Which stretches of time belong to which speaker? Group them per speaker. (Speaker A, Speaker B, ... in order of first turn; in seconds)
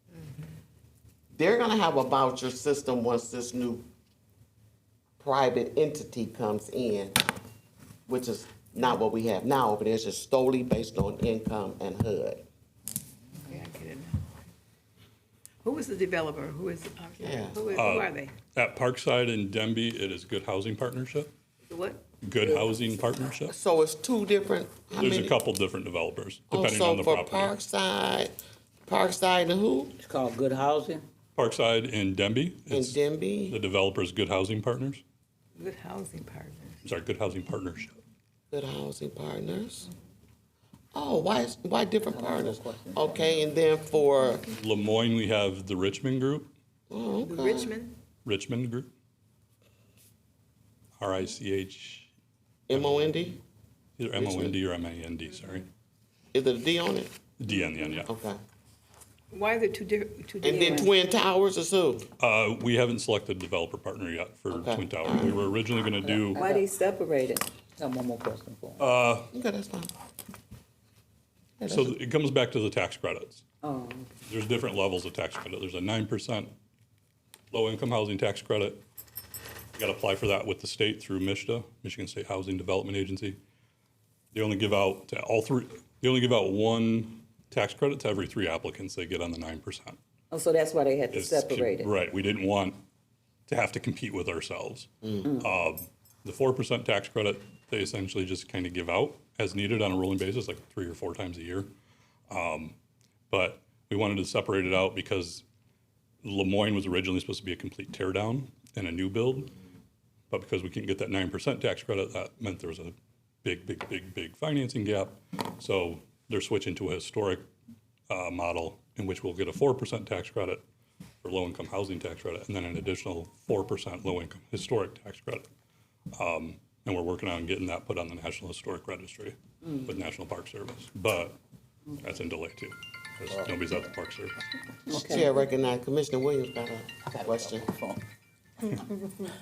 Speaker A: 1.3-3.8, 5.2-7.2, 8.1-12.4, 17.2-17.6, 23.4-25.4, 26.5-28.3, 28.9-29.9, 32.7-33.6, 38.5-39.9, 41.0-44.5, 46.9-47.7, 52.7-53.4, 54.2-54.6, 56.3-57.1, 58.0-58.4, 60.4-62.1, 64.5-65.5, 69.3-69.9, 71.6-72.0, 134.9-137.7
Speaker B: 13.4-14.2, 15.6-18.3, 21.7-22.0, 35.6-36.8, 47.2-47.9, 59.3-60.9
Speaker C: 17.7-21.3, 22.2-23.6, 25.0-27.6, 31.4-35.0, 36.8-38.0, 44.6-46.5, 48.2-48.9, 51.0-52.1, 52.7-53.3, 54.0-55.7, 57.4-58.1, 62.2-66.4, 68.8-69.3, 71.7-73.4, 74.3-76.5, 77.5-78.8, 79.8-83.4, 84.3-90.0, 91.1-92.8, 93.5-101.7, 102.3-102.8, 103.3-105.4, 106.2-109.5, 110.3-117.5, 118.1-120.6, 121.2-125.5, 126.2-131.4, 132.0-134.4
Speaker D: 30.0-31.0, 42.0-43.3, 66.3-66.6, 67.8-68.9, 134.9-135.2, 137.1-138.0
Speaker E: 57.5-58.0, 66.0-67.5, 73.6-74.1, 90.3-91.9, 95.2-95.5, 134.9-135.3